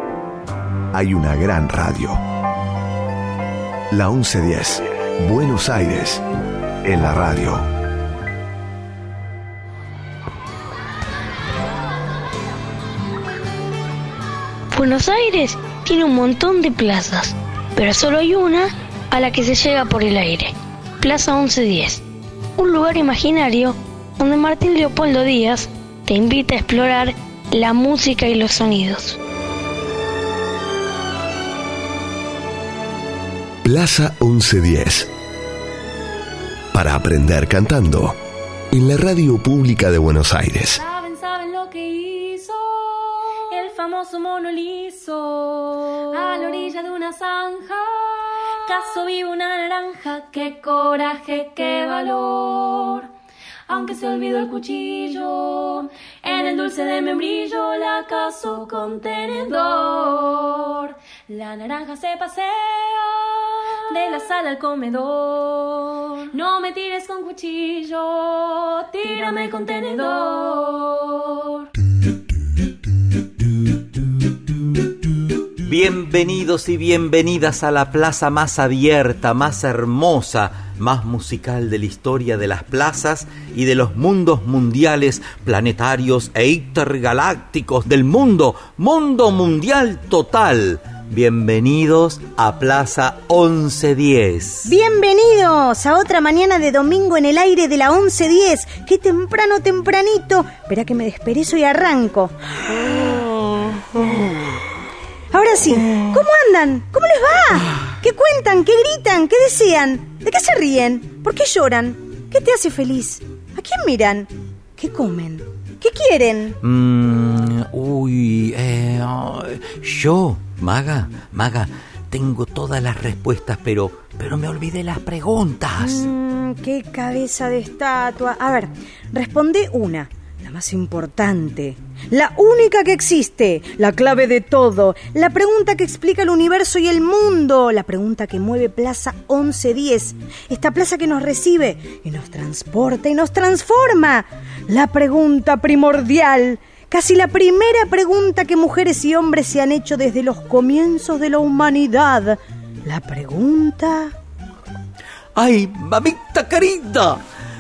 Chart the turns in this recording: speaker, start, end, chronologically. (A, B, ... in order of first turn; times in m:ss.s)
0:00.9-0:02.2 A
0:03.9-0:06.2 A
0:06.8-0:07.7 A
0:14.7-0:22.0 B
0:22.6-0:29.2 B
0:33.6-0:35.1 A
0:36.7-0:38.2 A
0:38.7-0:40.8 A
0:40.8-0:53.1 C
0:53.7-1:11.7 C
1:15.6-1:34.7 D
1:34.7-1:42.4 E
1:45.3-1:56.6 E
1:56.6-2:06.1 D
2:05.8-2:34.1 E
2:35.4-2:37.2 D